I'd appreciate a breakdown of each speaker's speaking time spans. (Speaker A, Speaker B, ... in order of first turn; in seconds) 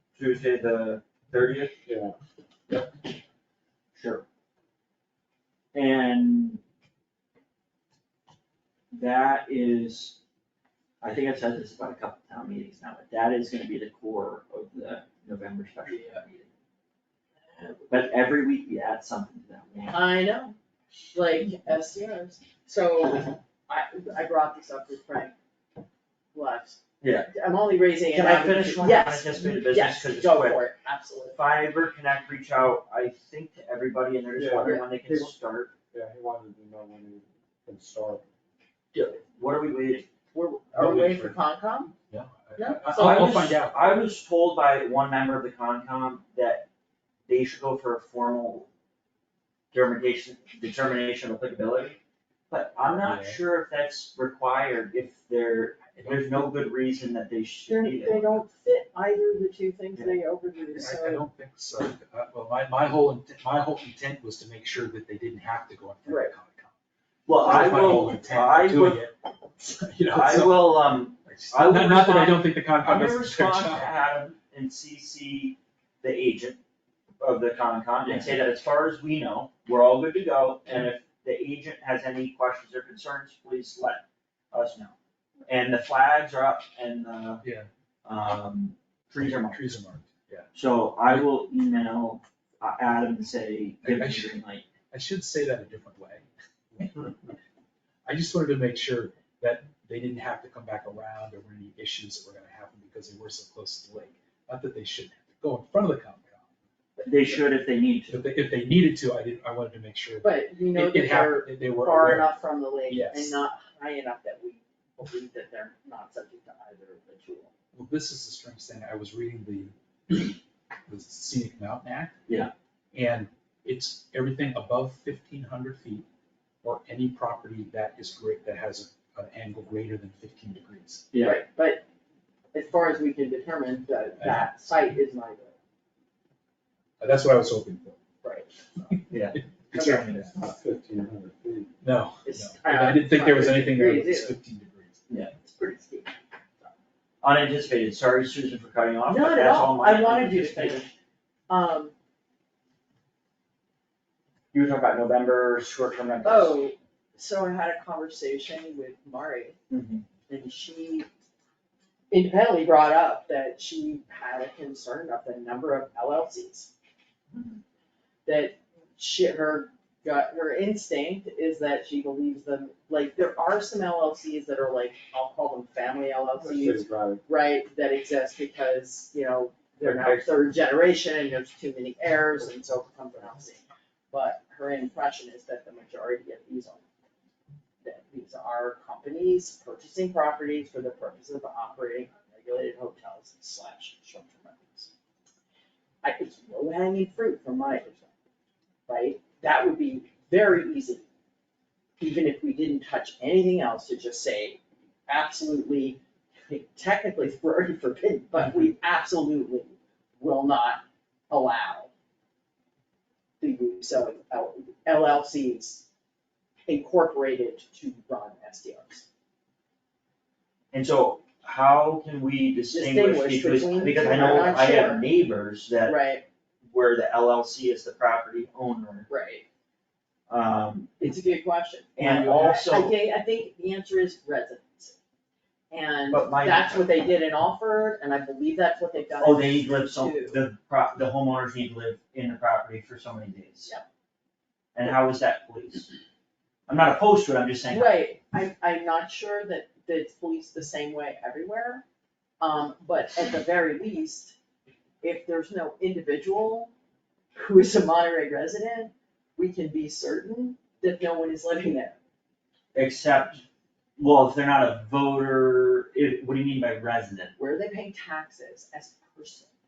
Speaker A: 0.1-1.8, 3.9-4.2, 5.7-6.6, 8.9-10.2, 11.0-16.5, 17.9-20.1, 27.0-27.3, 28.1-30.6, 31.3-35.7, 38.9-40.1, 42.8-46.7, 47.3-48.7, 49.7-52.0, 52.5-58.3, 67.3-69.0, 70.1-76.6, 77.2-84.9, 85.5-87.4, 88.0-89.7, 90.5-94.7, 107.0-108.2, 131.1-131.4, 139.1-139.4, 147.2-150.9, 154.5-156.6, 159.7-160.0, 179.8-180.3, 220.7-226.0, 226.7-229.1, 230.3-231.0, 231.9-232.9, 236.1-236.8, 239.2-243.7, 244.8-245.9, 246.7-248.1, 262.7-263.4, 264.0-267.3
Speaker B: 1.9-2.1, 34.4-34.7, 35.9-38.2, 40.8-41.4, 140.3-141.7, 176.4-177.2
Speaker C: 15.9-16.2, 17.5-17.8, 19.9-20.6, 21.1-25.3, 26.3-26.8, 27.3-31.4, 34.6-35.3, 40.3-41.9, 42.6-43.5, 57.7-61.2, 66.0-66.3, 110.2-117.5, 131.2-131.8, 132.5-135.5, 138.2-139.0, 139.7-140.4, 142.2-144.3, 145.4-146.7, 149.1-150.9, 151.5-151.9, 156.2-159.6, 160.3-161.1, 162.1-166.7, 168.2-186.8, 187.8-194.9, 196.0-198.1, 198.9-201.1, 202.0-211.9, 213.4-215.8, 216.7-219.1, 222.7-225.0, 225.8-226.2, 229.1-229.4, 231.0-234.9, 235.7-240.4, 247.7-251.8, 252.4-254.3, 255.0-256.7, 257.3-261.9, 267.4-269.5
Speaker D: 42.1-44.0, 52.8-53.4, 60.8-66.7, 67.4-74.1, 78.0-78.3, 87.4-87.7, 89.2-90.5, 93.8-94.3, 94.9-97.2, 98.0-106.4, 108.1-113.3, 117.7-122.2, 122.9-126.0, 126.6-131.1, 134.2-134.5, 137.0-138.0, 138.8-140.3, 141.8-145.0, 232.0-232.3